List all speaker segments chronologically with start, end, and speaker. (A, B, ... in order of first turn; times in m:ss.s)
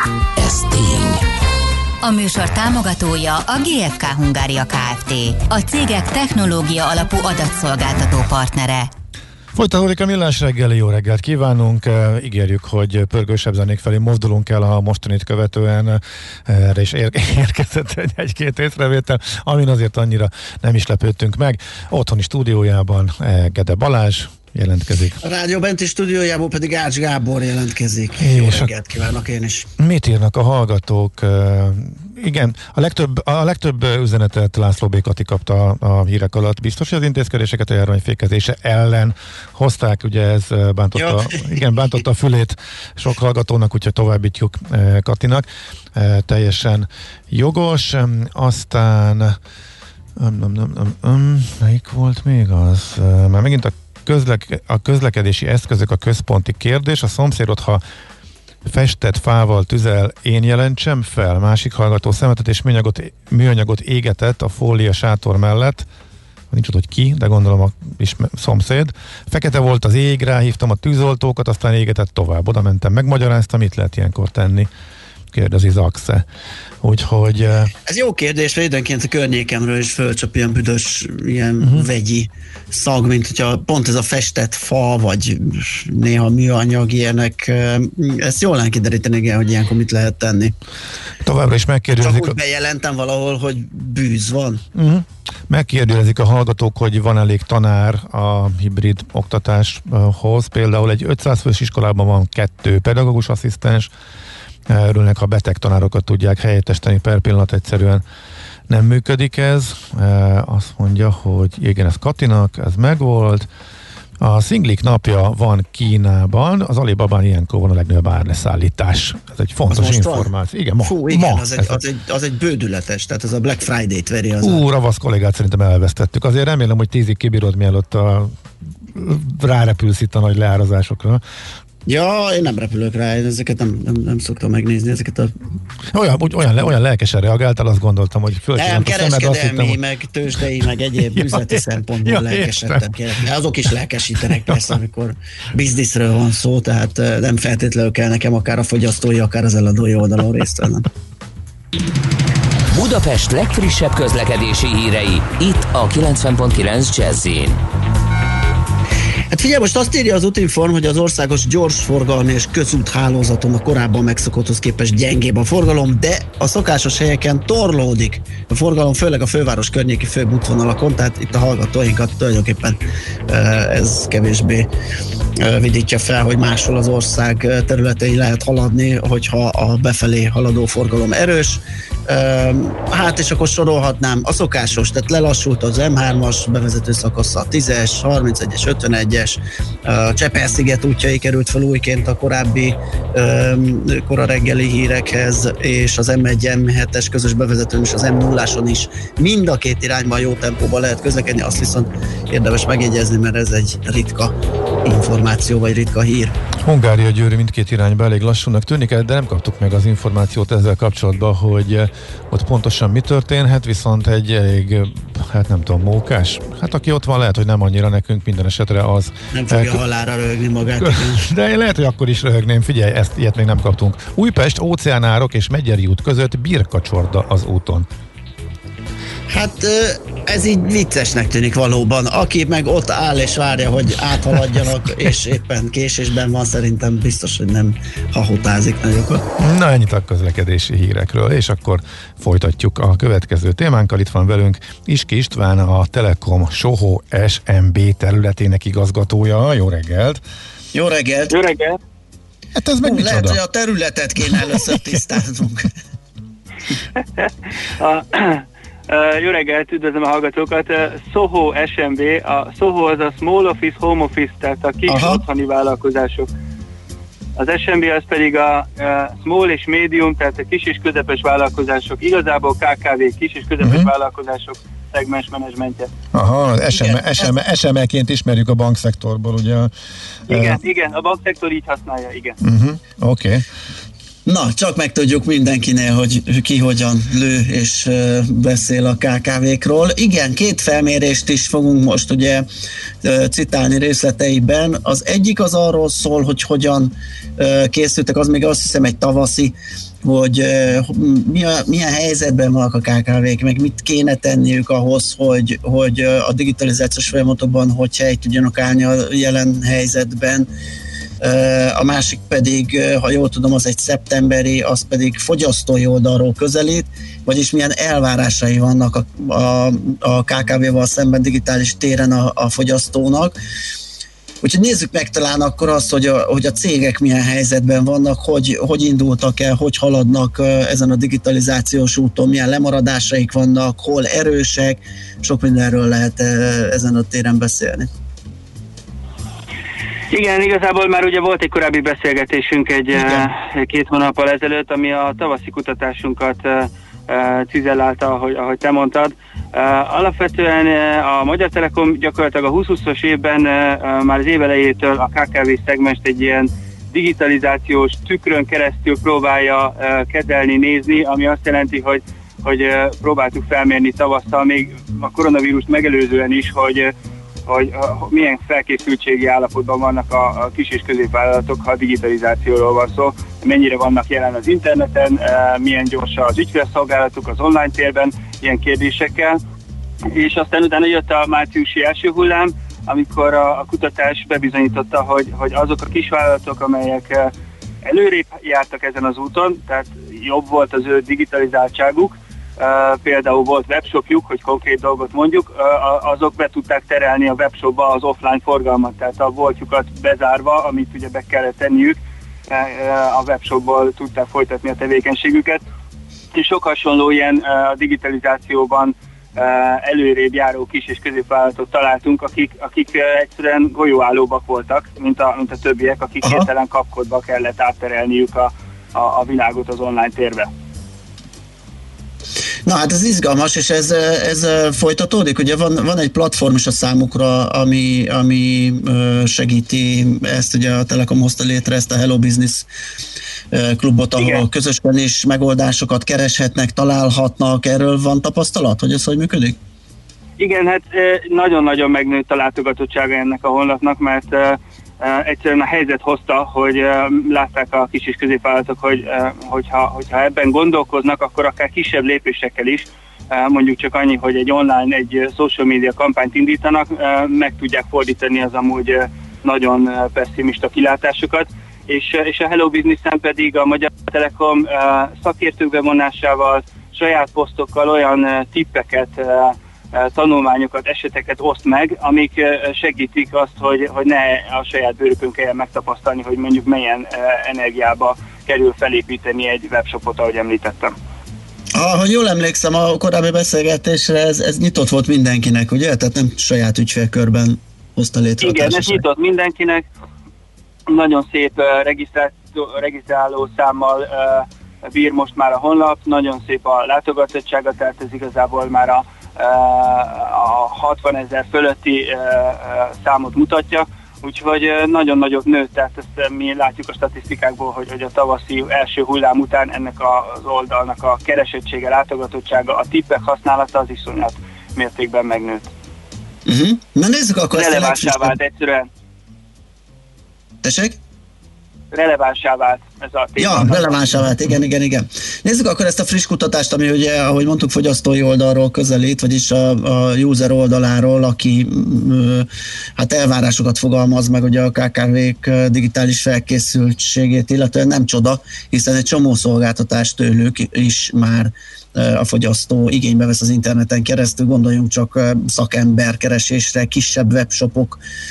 0:00.4-0:01.2 A
0:02.0-0:08.9 B
0:09.5-0:25.2 C
0:25.2-0:29.7 D
0:28.2-0:28.7 C
0:29.8-0:49.4 C
0:40.9-0:41.6 D
0:50.2-0:57.8 C
0:58.6-1:05.8 C
1:06.5-1:14.7 C
1:15.3-1:16.2 C
1:16.8-1:17.7 C
1:17.8-1:30.5 D
1:31.2-1:32.3 C
1:32.0-1:34.6 D
1:34.7-1:43.9 C
1:44.7-1:48.0 C
1:48.7-1:53.5 C
1:54.2-2:01.8 C
1:59.7-2:04.6 D
2:04.4-2:08.3 C
2:08.9-2:11.2 C
2:11.8-2:15.3 D
2:15.9-2:19.8 C
2:18.6-2:30.8 D
2:21.0-2:22.8 C
2:32.7-2:37.6 A
2:39.3-2:52.8 D
2:53.3-2:54.7 D
2:55.4-3:24.3 D
3:24.8-3:26.3 D
3:26.6-3:39.8 C
3:39.3-3:41.2 D
3:40.8-3:47.8 C
3:49.3-3:59.2 D
3:59.4-4:10.2 C
4:10.7-4:11.3 D
4:11.3-4:11.8 E
4:12.6-4:13.4 C
4:12.8-4:15.7 D
4:17.2-4:26.3 E
4:24.9-4:25.2 D
4:27.4-4:35.9 E
4:33.6-4:33.9 C
4:36.1-4:39.7 C
4:36.7-4:37.3 D
4:40.3-4:40.6 C
4:40.3-4:42.4 E
4:42.4-4:43.4 C
4:44.2-4:52.4 D
4:53.0-5:10.5 D
5:11.2-5:23.3 D
5:24.4-5:37.9 D
5:40.1-6:06.9 E
5:43.0-5:43.2 D
6:07.4-6:19.4 E
6:20.1-6:27.3 E
6:27.8-6:42.0 E
6:42.5-6:45.6 E
6:46.3-7:00.5 E
7:02.6-7:12.7 D
7:13.5-7:19.6 D
7:14.2-7:14.4 E
7:20.4-8:00.9 E
8:01.7-8:09.0 D
8:08.4-8:09.9 E
8:10.9-8:35.7 E
8:36.4-8:38.3 D
8:37.5-8:38.9 E
8:40.6-8:41.0 D
8:41.9-8:44.1 E
8:43.4-9:08.0 D